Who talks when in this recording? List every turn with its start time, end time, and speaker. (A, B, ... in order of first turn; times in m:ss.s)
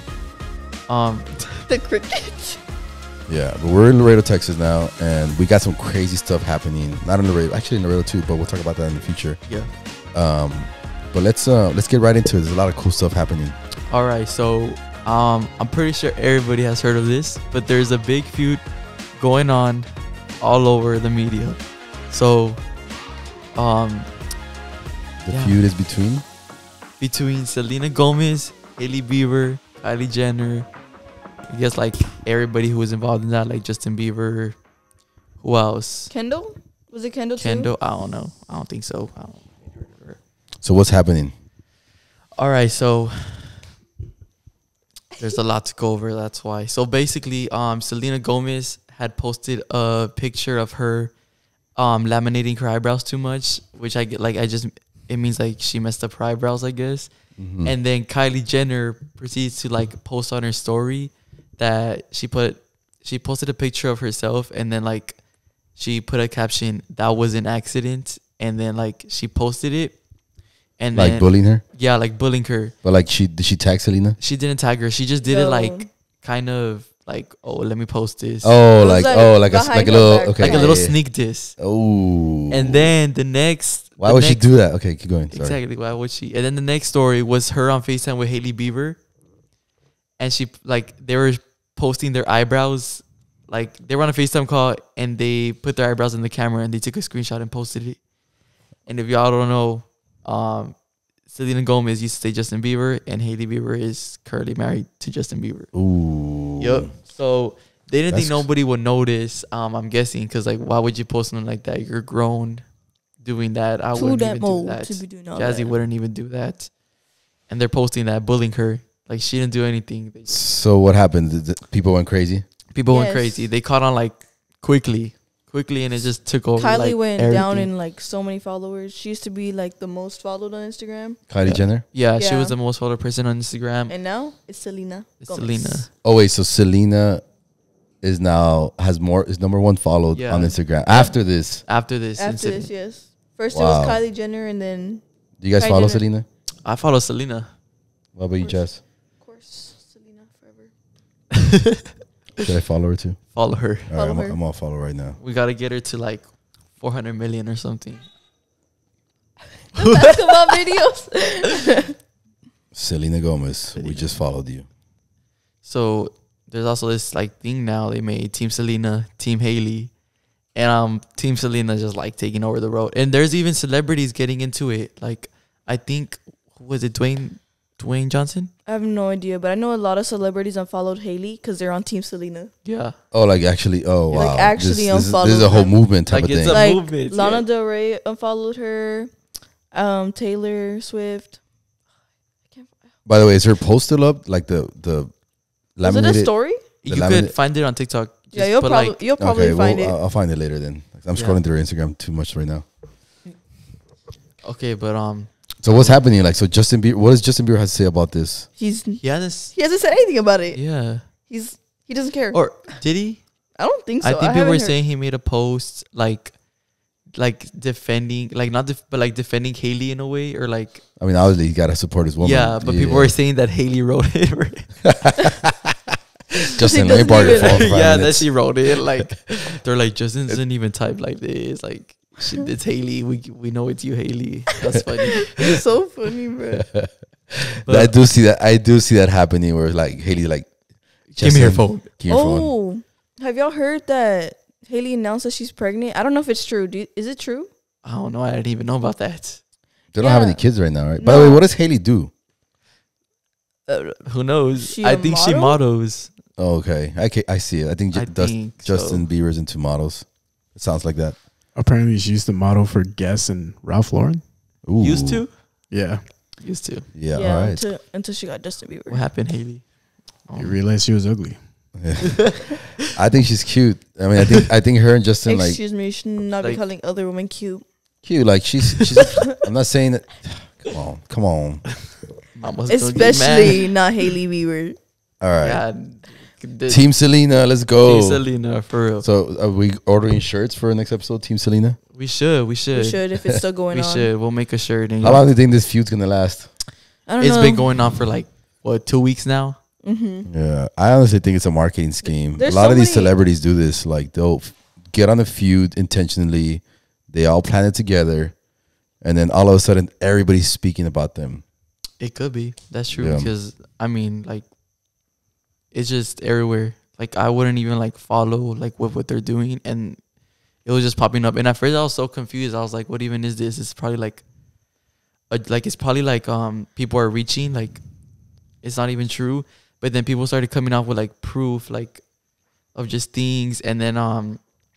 0:00.9-0:01.7 A
0:01.7-0:02.6 B
0:03.3-0:09.4 C
0:10.1-0:13.6 C
0:13.9-0:18.6 A
0:19.2-0:19.9 A
0:20.4-0:22.6 A
0:23.5-0:24.1 A
0:25.2-0:26.2 C
0:25.3-0:25.6 A
0:27.0-0:30.7 A
0:31.5-0:34.6 A
0:35.4-0:36.1 A
0:36.1-0:37.7 B
0:37.4-0:40.2 A
0:40.6-0:41.3 C
0:42.4-0:43.7 A
0:45.2-0:51.1 A
0:51.8-0:57.1 A
0:57.4-0:57.7 C
0:57.6-1:05.2 A
1:05.8-1:10.0 A
1:10.8-1:12.7 A
1:10.9-1:11.6 C
1:12.8-1:14.2 C
1:14.2-1:18.5 A
1:15.2-1:15.8 B
1:18.4-1:21.0 C
1:18.8-1:20.8 B
1:20.4-1:21.6 A
1:21.6-1:22.9 C
1:22.5-1:24.4 A
1:24.0-1:25.6 C
1:25.3-1:29.0 A
1:30.2-1:38.0 A
1:38.8-1:40.8 A
1:41.3-1:45.7 A
1:45.7-1:46.9 C
1:46.6-1:52.6 A
1:48.1-1:48.4 C
1:53.2-1:56.7 A
1:53.9-1:55.7 B
1:57.5-2:00.4 A
2:00.3-2:02.4 C
2:02.7-2:07.7 A
2:02.9-2:03.5 B
2:06.6-2:11.2 B
2:11.3-2:11.8 C
2:11.4-2:13.9 A
2:12.2-2:12.5 B
2:13.9-2:15.9 B
2:15.2-2:15.9 A
2:16.0-2:17.2 C
2:18.0-2:21.6 C
2:20.1-2:21.1 A
2:21.7-2:22.7 A
2:22.2-2:25.0 B
2:23.5-2:24.0 C
2:25.4-2:26.2 C
2:25.6-2:26.0 B
2:26.6-2:27.5 A
2:28.1-2:28.8 C
2:29.2-2:30.7 B
2:31.4-2:31.7 A
2:32.4-2:33.2 C
2:33.3-2:33.9 A
2:33.8-2:35.2 C
2:33.9-2:34.4 B
2:35.2-2:38.1 A
2:39.8-2:41.9 B
2:39.8-2:40.5 A
2:42.7-2:44.6 C
2:43.8-2:44.2 A
2:45.6-2:49.9 A
2:50.5-2:58.5 A
2:58.7-3:02.5 B
3:02.6-3:02.9 A
3:03.1-3:06.6 C
3:04.1-3:05.8 B
3:06.1-3:07.4 A
3:06.5-3:09.1 B
3:09.7-3:11.4 B
3:13.0-3:15.1 C
3:15.8-3:16.3 C
3:15.8-3:16.6 B
3:16.8-3:19.0 A
3:16.9-3:17.3 C
3:18.3-3:20.0 B
3:19.2-3:22.6 C
3:21.1-3:21.4 A
3:24.4-3:26.0 A
3:25.6-3:28.5 C
3:28.6-3:32.7 B
3:29.0-3:29.5 A
3:30.5-3:31.0 A
3:32.3-3:33.2 A
3:33.6-3:34.7 B
3:34.0-3:36.4 A
3:37.1-3:40.8 A
3:41.0-3:43.1 C
3:42.2-3:44.8 A
3:44.8-3:45.8 C
3:46.5-3:48.3 C
3:46.6-3:47.6 B
3:47.1-3:55.6 A
3:55.3-3:56.6 B
3:56.6-4:00.5 C
3:57.6-3:57.9 A
4:01.1-4:01.8 A
4:01.2-4:02.5 C
4:02.1-4:07.5 B
4:07.8-4:09.4 A
4:09.9-4:12.1 C
4:10.0-4:10.4 B
4:11.0-4:11.4 B
4:13.7-4:14.0 B
4:14.0-4:16.1 A
4:14.6-4:15.6 B
4:16.4-4:21.2 C
4:17.9-4:19.0 A
4:21.5-4:24.2 D
4:24.6-4:25.2 C
4:24.8-4:25.4 A
4:25.7-4:26.0 D
4:26.4-4:26.9 A
4:26.9-4:27.6 C
4:27.1-4:29.0 B
4:28.9-4:29.7 A
4:30.2-4:30.6 A
4:30.4-4:31.4 D
4:31.8-4:35.6 C
4:35.3-4:37.6 B
4:38.0-4:41.7 C
4:42.3-4:43.7 A
4:42.7-4:44.8 B
4:45.2-4:45.6 C
4:45.4-4:46.8 A
4:46.7-4:48.2 C
4:47.7-4:49.0 A
4:49.0-4:51.8 C
4:51.9-4:53.1 A
4:52.7-4:54.1 B
4:53.7-4:55.2 A
4:55.0-4:56.5 C
4:57.1-4:57.7 B
4:57.2-4:59.6 A
4:59.8-5:00.3 B
5:00.3-5:08.4 C
5:02.4-5:03.1 B
5:09.0-5:11.4 C
5:12.0-5:14.4 A
5:12.9-5:13.3 C
5:15.7-5:20.0 A
5:20.6-5:24.2 A
5:25.3-5:27.8 A
5:28.6-5:32.0 A
5:32.7-5:34.4 A